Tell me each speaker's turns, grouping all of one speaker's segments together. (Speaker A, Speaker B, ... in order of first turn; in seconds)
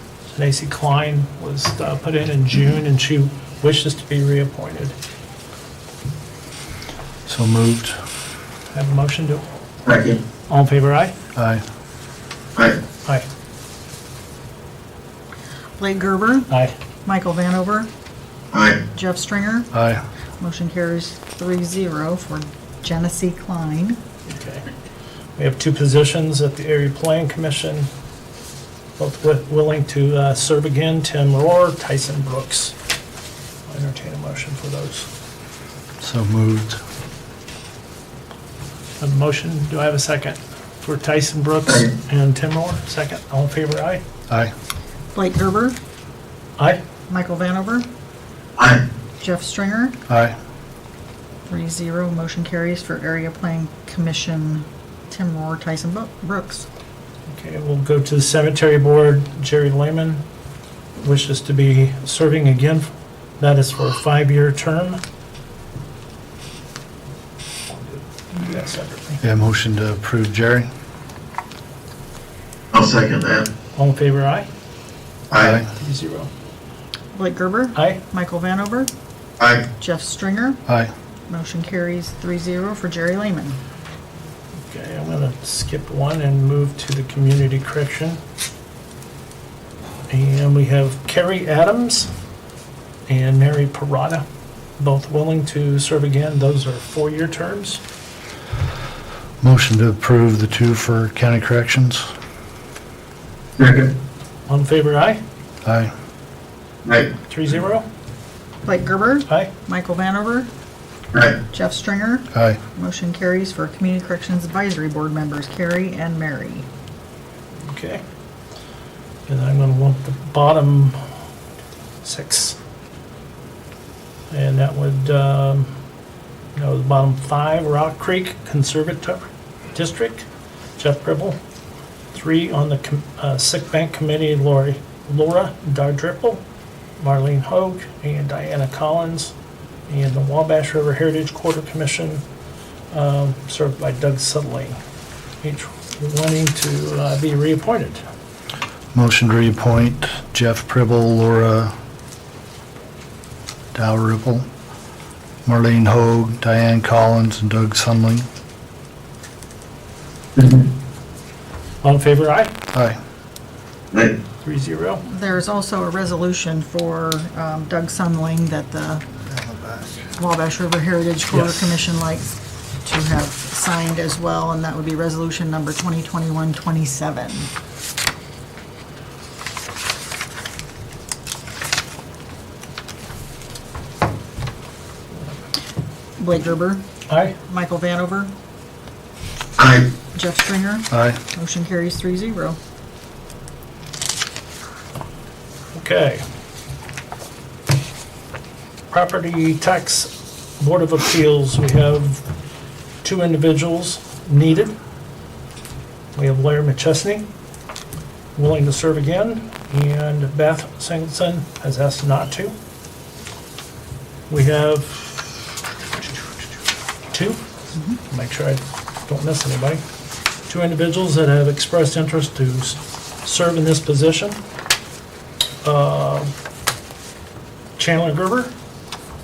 Speaker A: 0.3-4.9, 8.7-9.4, 10.5-11.1, 16.5-16.8, 24.3-24.7, 25.4-27.9, 29.0-32.7, 33.7-35.1, 39.0-44.0, 57.3-60.2, 61.0-62.9, 63.4-65.0, 67.7-69.2, 73.8-74.5, 75.7-76.3, 77.8-78.0, 84.7-88.2, 90.1-92.1, 93.1-94.2, 94.8-97.8, 104.5-105.2, 107.3-107.9, 117.6-118.0, 119.3-121.0, 122.0-122.6, 124.3-125.7, 126.5-130.2, 130.8-131.4, 132.1-136.4, 137.0-139.3, 139.9-142.2, 142.9-144.8, 145.4-148.0, 161.8-162.5, 164.4-165.0, 171.3-171.6, 187.1-187.4, 195.7-196.2, 198.9-202.3, 203.0-204.7, 206.1-207.3, 208.3-212.5, 214.3-215.3, 217.1-217.4, 218.1-219.8, 220.5-224.4, 225.6-226.3, 227.8-228.5
Speaker B: 7.3-8.0, 11.3-11.6, 19.7-20.0, 36.0-36.8, 50.1-50.4, 69.2-70.7, 75.4-75.7, 99.4-102.1, 105.6-105.9, 112.3-112.6, 148.9-151.7, 153.7-154.4, 155.4-158.3, 190.9-191.2
Speaker C: 9.8-10.2, 18.5-18.8, 48.6-48.8, 72.7-73.5, 75.3-75.6, 79.4-79.7, 103.6-103.9, 106.8-107.1, 111.1-111.4, 160.3-160.7, 189.6-189.9
Speaker D: 15.8-16.5, 17.1-17.9, 18.9-19.7, 20.4-24.0, 45.1-45.8, 47.1-47.9, 49.2-50.0, 51.5-56.7, 77.1-78.9, 79.8-80.6, 81.3-83.6, 108.6-110.5, 111.5-116.7, 165.1-169.0, 170.1-172.3, 172.8-177.5, 186.2-186.8, 187.5-188.3, 190.1-192.6